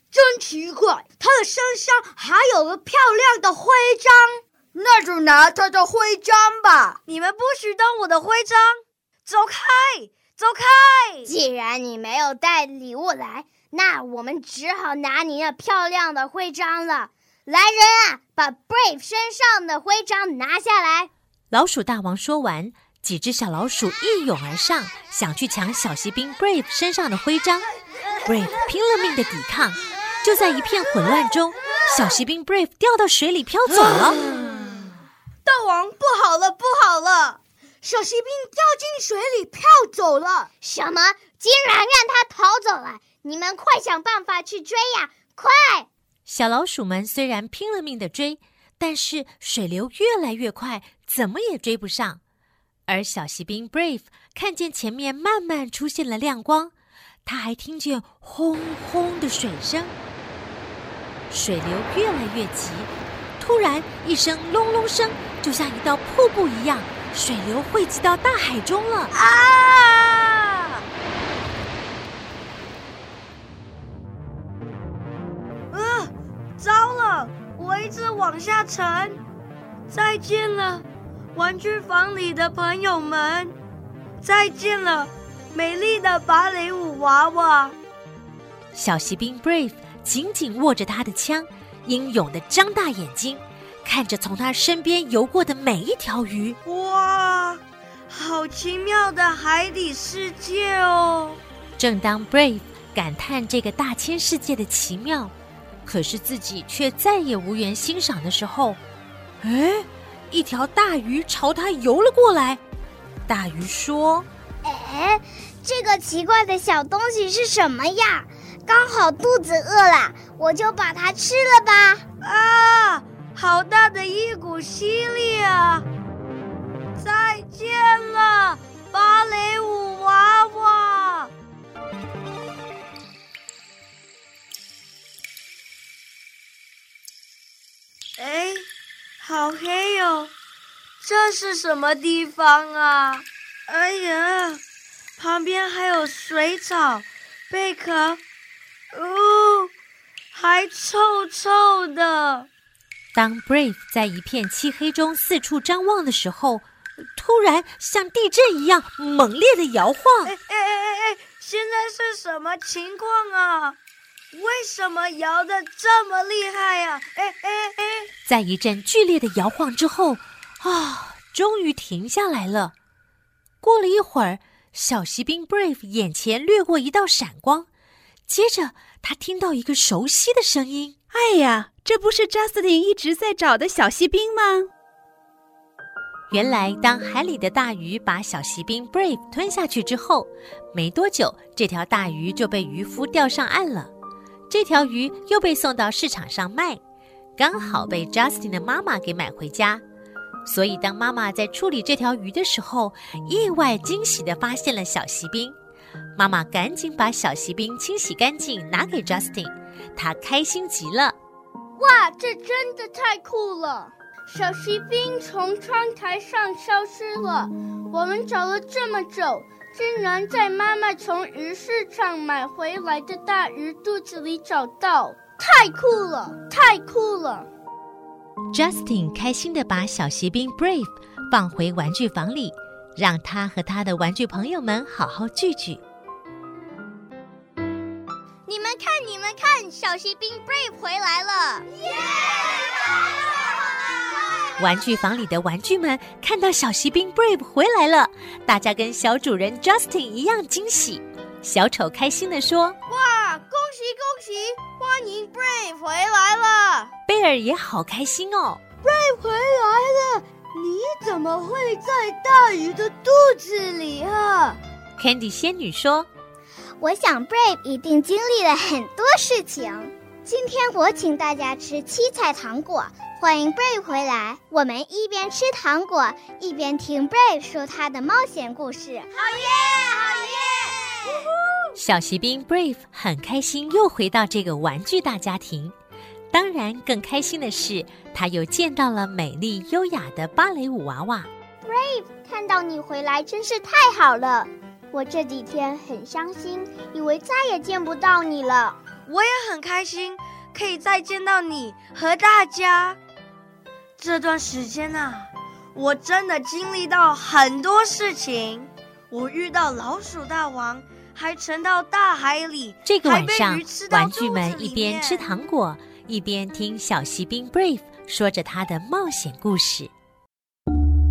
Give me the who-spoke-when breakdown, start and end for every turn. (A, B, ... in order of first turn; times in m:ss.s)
0:00.1-0:07.0 A
0:07.1-0:11.3 B
0:11.3-0:21.1 C
0:21.5-0:27.7 D
0:28.3-0:34.2 D
0:35.4-0:37.4 B
0:37.8-0:38.8 A
0:40.6-0:45.9 C
0:46.3-0:52.2 D
0:52.9-0:56.7 D
0:57.2-1:00.0 D
1:01.3-1:09.1 D
1:09.1-1:10.8 B
1:15.7-1:19.2 B
1:19.9-1:23.6 B
1:24.2-1:27.8 B
1:28.7-1:36.6 D
1:36.6-1:41.4 B
1:41.8-1:45.3 D
1:45.9-1:48.8 D
1:49.4-1:52.6 D
1:53.3-1:54.3 D
1:54.6-2:02.0 C
2:02.2-2:05.9 B
2:07.0-2:11.3 B
2:18.2-2:18.7 B
2:19.2-2:20.3 B
2:21.0-2:24.6 B
2:25.2-2:28.2 B
2:28.9-2:29.7 B
2:30.3-2:32.5 B
2:33.1-2:36.7 D
2:37.2-2:40.3 D
2:40.2-2:43.8 B
2:44.3-2:48.1 B
2:48.3-2:52.7 D
2:53.6-2:57.7 D
2:58.3-3:01.0 D
3:01.1-3:04.7 E
3:06.3-3:13.9 D
3:14.5-3:16.8 D
3:17.4-3:19.8 D
3:20.4-3:25.6 D
3:26.2-3:31.2 D
3:31.8-3:47.5 F
3:48.5-3:55.8 D
3:58.5-4:01.7 C
4:04.6-4:12.8 D
4:12.9-4:16.9 B
4:17.1-4:18.6 D
4:18.8-4:24.6 B
4:25.0-4:26.1 D
4:26.8-4:41.0 C
4:41.8-4:45.8 D
4:46.3-4:51.3 D
4:51.6-4:58.8 C
4:59.1-5:03.0 B
5:04.0-5:15.2 B
5:12.9-5:19.9 D